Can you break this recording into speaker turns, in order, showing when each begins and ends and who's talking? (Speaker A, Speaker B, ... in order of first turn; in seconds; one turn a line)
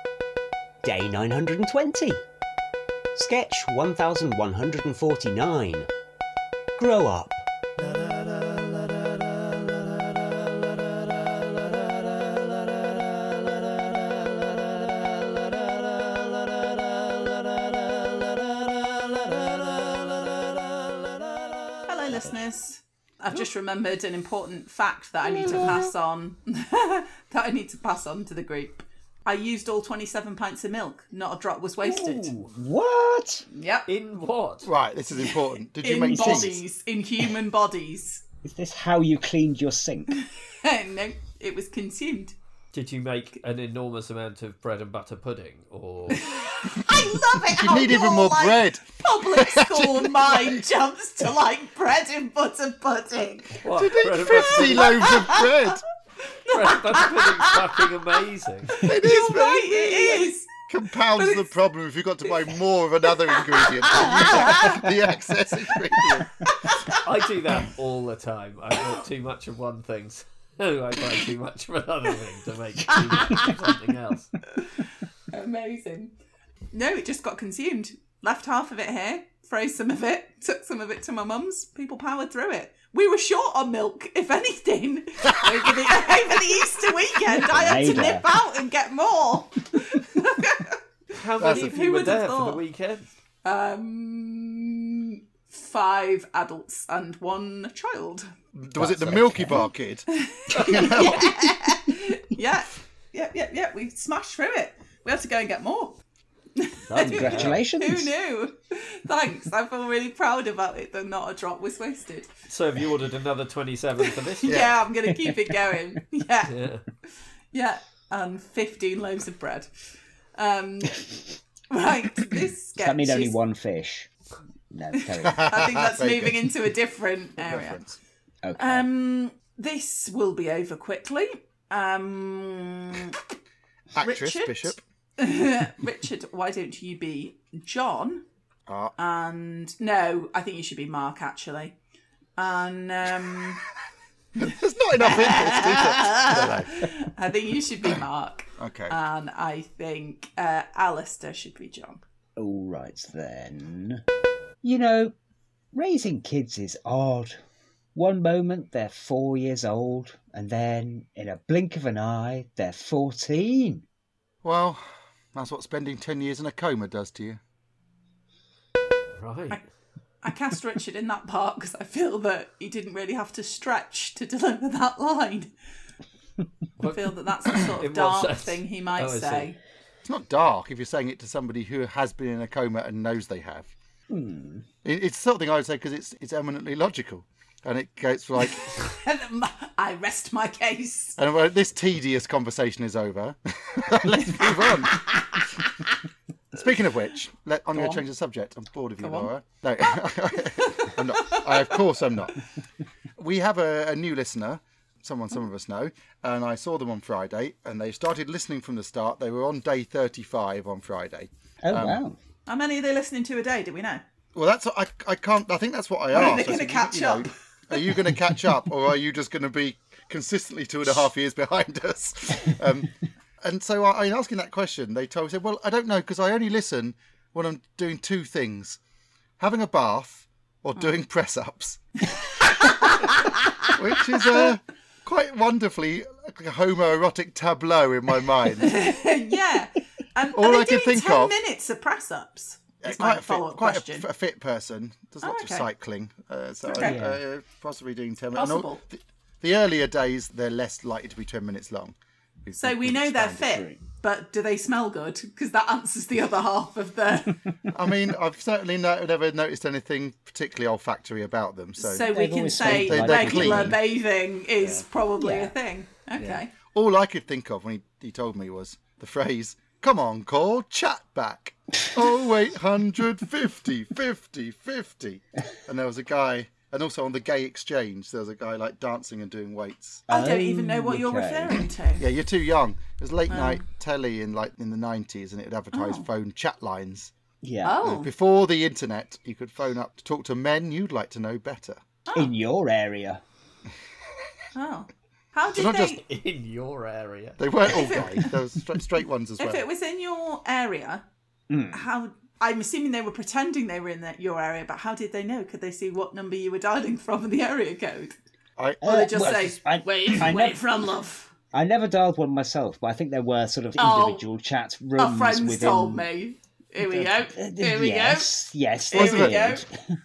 Speaker A: 0.8-2.2
Speaker A: 3.1-5.9
Speaker A: 6.8-7.5
Speaker B: 21.9-32.3
Speaker A: 25.2-25.9
Speaker A: 31.8-33.5
Speaker B: 33.5-33.9
Speaker C: 33.9-34.7
Speaker D: 34.6-36.6
Speaker B: 35.8-38.2
Speaker A: 36.1-36.5
Speaker A: 38.4-40.1
Speaker B: 40.2-42.4
Speaker C: 42.7-46.2
Speaker B: 46.1-55.7
Speaker D: 47.5-50.5
Speaker C: 53.6-55.1
Speaker D: 53.8-55.8
Speaker B: 56.5-57.6
Speaker C: 56.5-58.8
Speaker D: 58.8-66.5
Speaker B: 59.0-60.5
Speaker B: 61.1-61.5
Speaker B: 63.4-64.8
Speaker B: 66.5-67.0
Speaker C: 67.0-74.3
Speaker B: 72.9-73.6
Speaker B: 74.6-76.2
Speaker B: 76.7-90.8
Speaker A: 87.4-88.3
Speaker C: 91.1-93.1
Speaker D: 91.4-91.8
Speaker B: 91.4-92.6
Speaker B: 93.4-98.3
Speaker D: 98.6-101.4
Speaker A: 98.7-99.7
Speaker B: 100.1-106.0
Speaker C: 100.5-101.2
Speaker B: 106.6-112.3
Speaker C: 106.9-107.6
Speaker A: 107.0-108.1
Speaker C: 112.5-114.6
Speaker B: 114.4-116.5
Speaker D: 114.5-114.7
Speaker C: 116.5-116.8
Speaker B: 117.1-119.7
Speaker B: 120.3-123.4
Speaker A: 122.8-124.1
Speaker A: 124.7-125.5
Speaker B: 125.0-127.8
Speaker D: 125.2-126.5
Speaker D: 127.5-128.0
Speaker A: 128.4-128.9
Speaker B: 128.6-133.2
Speaker D: 133.9-134.8
Speaker B: 133.9-138.2
Speaker D: 138.7-138.9
Speaker B: 139.0-141.8
Speaker B: 142.4-143.6
Speaker D: 144.4-146.9
Speaker B: 145.0-152.0
Speaker D: 148.6-149.0
Speaker A: 152.4-154.0
Speaker A: 154.6-155.2
Speaker A: 155.7-157.4
Speaker A: 157.9-163.8
Speaker D: 164.4-164.8
Speaker D: 165.3-167.4
Speaker C: 169.2-169.6
Speaker B: 170.2-175.5
Speaker C: 176.8-179.5
Speaker B: 176.9-179.6
Speaker D: 180.1-183.7
Speaker A: 184.1-184.7
Speaker D: 184.8-188.8
Speaker B: 188.8-191.2
Speaker D: 191.2-195.4
Speaker B: 194.6-195.4
Speaker D: 196.5-202.4
Speaker B: 197.8-198.0
Speaker B: 199.0-199.3
Speaker D: 203.2-212.0
Speaker A: 211.6-212.2
Speaker B: 212.5-214.0
Speaker D: 214.3-228.8
Speaker B: 216.1-217.9
Speaker D: 229.4-231.8
Speaker B: 232.4-233.4
Speaker D: 233.6-238.7
Speaker B: 238.6-244.1
Speaker D: 240.3-241.3
Speaker D: 242.8-253.6
Speaker B: 245.2-245.7
Speaker B: 246.7-247.0
Speaker A: 246.8-247.2
Speaker B: 248.3-248.8
Speaker B: 252.6-257.4
Speaker A: 253.5-253.8
Speaker D: 257.7-263.8
Speaker B: 261.8-266.5
Speaker A: 262.1-263.8
Speaker D: 264.6-264.9
Speaker A: 265.2-265.6
Speaker D: 266.2-280.1
Speaker A: 280.1-281.7
Speaker B: 280.1-282.1
Speaker D: 282.0-287.1
Speaker B: 283.3-283.6
Speaker B: 285.7-286.1
Speaker A: 287.4-287.8
Speaker B: 287.6-288.1
Speaker D: 287.8-291.8
Speaker B: 292.1-292.3
Speaker A: 292.1-293.2
Speaker B: 294.6-296.0
Speaker D: 295.6-296.0
Speaker C: 295.9-297.4
Speaker D: 297.4-299.6
Speaker B: 297.6-298.2
Speaker B: 299.4-301.1
Speaker A: 301.5-301.9
Speaker B: 301.7-308.1
Speaker D: 308.6-309.5
Speaker A: 308.8-310.6
Speaker B: 308.8-311.3
Speaker A: 311.5-316.1
Speaker B: 313.8-314.3
Speaker B: 315.0-318.4
Speaker A: 316.8-319.8
Speaker B: 318.9-319.6
Speaker D: 318.9-319.6